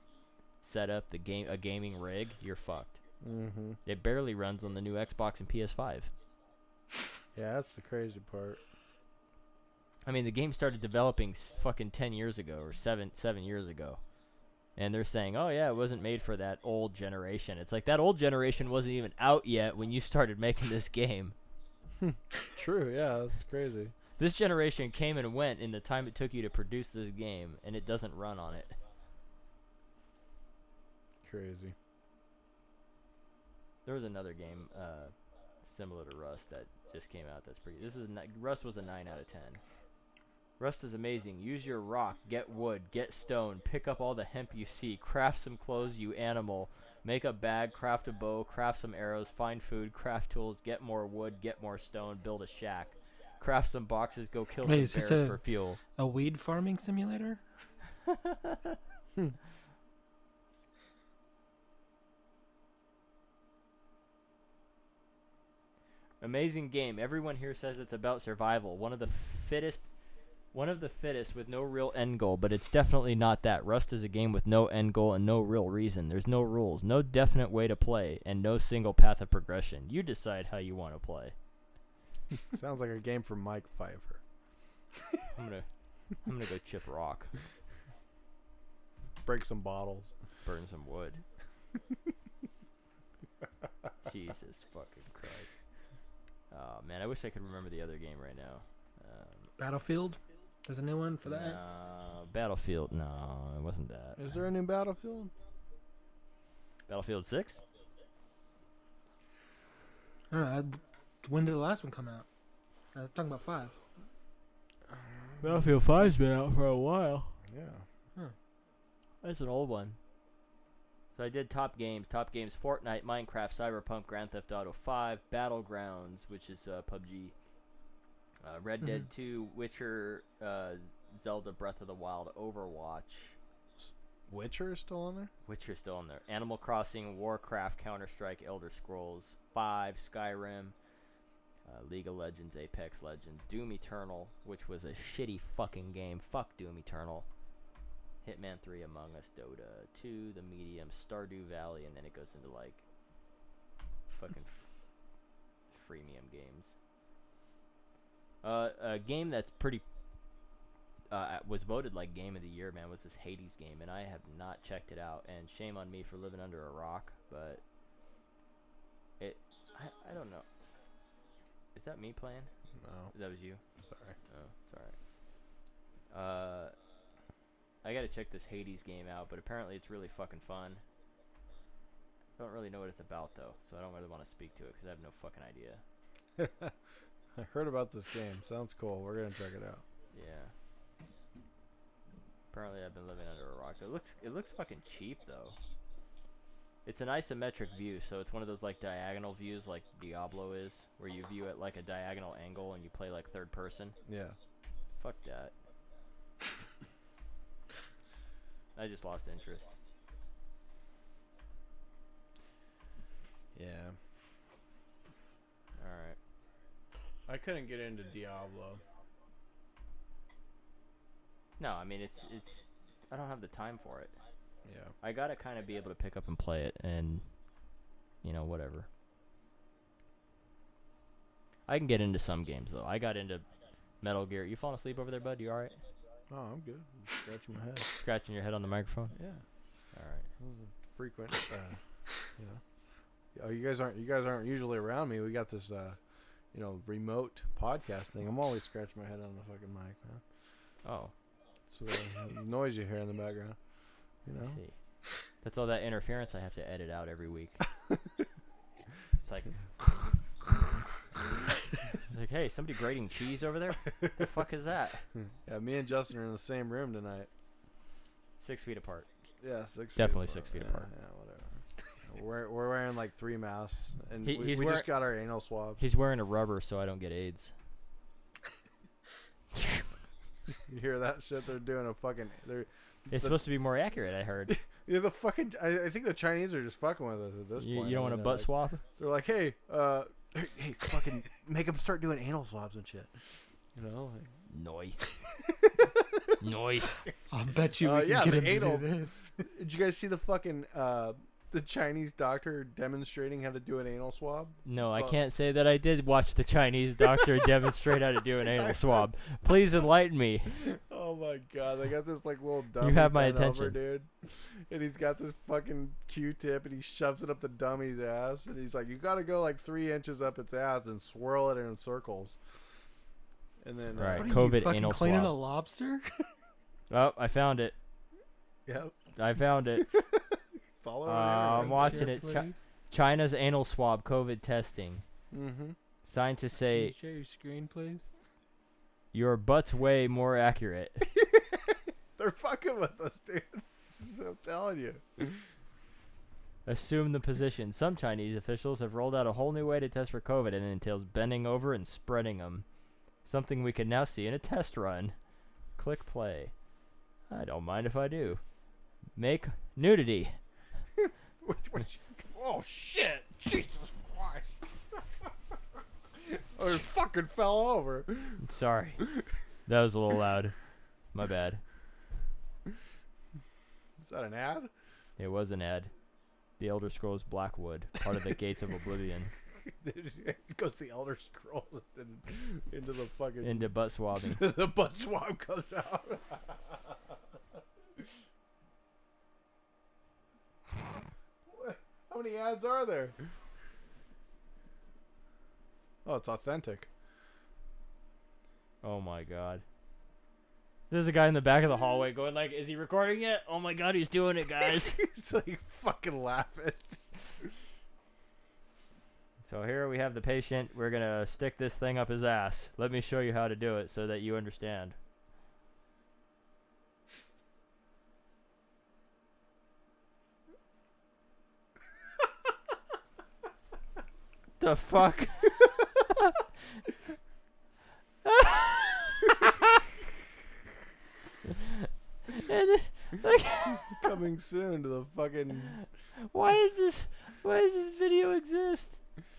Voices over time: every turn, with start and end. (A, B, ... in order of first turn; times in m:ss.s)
0:00.6-0:03.0 A
0:03.2-0:03.8 B
0:03.9-0:06.1 A
0:07.4-0:08.6 B
0:10.1-0:14.0 A
0:14.8-0:21.4 A
0:22.0-0:23.9 B
0:24.2-0:28.8 A
0:31.2-0:31.8 B
0:33.9-0:39.6 A
0:40.6-0:55.8 A
0:54.6-0:57.4 C
0:58.0-0:58.8 A
1:06.2-1:09.9 A
1:10.5-1:21.4 A
1:22.5-1:24.2 B
1:25.3-1:25.7 A
1:26.2-1:27.3 A
1:29.2-1:30.1 B
1:30.4-1:31.2 A
1:34.0-1:35.6 A
1:36.5-1:39.5 A
1:39.6-1:41.6 C
1:41.2-1:44.2 A
1:44.2-1:45.3 B
1:46.9-1:47.6 A
1:50.3-1:52.3 C
1:52.9-1:53.8 C
1:54.9-1:55.4 B
1:55.4-1:57.4 A
1:57.4-1:57.8 B
1:59.2-2:00.0 A
2:01.2-2:07.3 A
2:08.4-2:13.4 A
2:13.8-2:15.3 B
2:15.5-2:20.8 A
2:21.7-2:27.3 A
2:28.2-2:32.8 A
2:34.2-2:34.7 A
2:35.7-2:36.8 A
2:38.4-2:39.8 A
2:41.1-2:47.6 A
2:49.2-2:50.4 A
2:51.8-2:52.5 A
2:52.8-2:53.1 B
2:53.1-2:53.6 A
2:53.8-2:54.2 B
2:54.3-2:55.0 A
2:56.1-2:56.7 A
2:57.8-3:00.8 A
3:02.4-3:05.8 A
3:06.4-3:06.8 B
3:07.4-3:09.8 B
3:10.1-3:10.5 A
3:12.5-3:15.6 A
3:16.8-3:24.0 A
3:24.1-3:24.4 B
3:25.0-3:25.5 A
3:28.8-3:29.8 A
3:33.6-3:34.0 B
3:35.8-3:36.2 A
3:37.3-3:38.8 B
3:41.6-3:44.1 A
3:44.6-3:44.9 B
3:45.0-3:47.2 A
3:48.2-3:48.9 A
3:51.7-3:53.4 A
3:54.0-3:55.8 A
3:56.3-3:57.9 B
3:57.8-3:59.1 A
3:59.1-3:59.4 B
3:59.9-4:00.3 A
4:00.4-4:02.6 B
4:03.4-4:06.0 B
4:06.5-4:10.2 B
4:10.8-4:11.1 A
4:11.7-4:13.6 B
4:14.3-4:14.6 B
4:14.4-4:14.8 A
4:15.4-4:17.6 A
4:19.2-4:19.6 A
4:21.9-4:25.1 A
4:25.4-4:27.3 B
4:28.4-4:29.1 A
4:29.4-4:35.8 B
4:30.0-4:30.9 A
4:34.2-4:34.9 A
4:35.8-4:37.5 A
4:39.6-4:39.9 A
4:40.6-4:43.4 B
4:43.1-4:44.5 A
4:44.5-4:53.1 B
4:47.6-4:48.8 A
4:53.8-4:54.4 B
4:54.5-4:55.0 A
4:55.4-4:56.4 B
4:56.4-4:57.1 A
4:57.3-4:59.5 C
4:57.8-4:58.9 B
4:59.4-5:05.2 B
5:04.6-5:10.7 A
5:08.4-5:09.1 B
5:10.6-5:22.4 B
5:12.8-5:13.8 A
5:23.6-5:24.5 B
5:24.0-5:25.3 A
5:24.1-5:26.3 C
5:26.9-5:27.8 A
5:28.7-5:29.0 B
5:29.2-5:29.9 A
5:29.8-5:32.2 B
5:31.0-5:35.0 A
5:31.5-5:32.5 C
5:35.3-5:35.8 B
5:36.0-5:36.9 A
5:36.6-5:38.1 C
5:39.1-5:41.0 A
5:41.2-5:45.4 B
5:46.7-5:52.6 A
5:53.2-5:55.2 A
5:55.8-5:56.5 A
5:57.3-5:58.4 A
5:59.2-6:00.4 A
6:01.0-6:05.3 B
6:06.2-6:08.4 B
6:08.4-6:09.0 A
6:09.7-6:10.6 A
6:11.1-6:11.6 A
6:14.0-6:14.7 B
6:15.2-6:15.9 A
6:16.6-6:19.3 A
6:19.7-6:27.2 B
6:23.4-6:24.4 A
6:31.5-6:33.2 B
6:36.0-6:36.9 B
6:38.8-6:39.6 A
6:40.9-6:45.0 A
6:44.6-6:47.5 B
6:49.4-6:55.0 A
7:04.6-7:06.4 A
7:08.2-7:09.6 A
7:11.4-7:14.1 A
7:13.9-7:15.8 B
7:15.7-7:19.0 A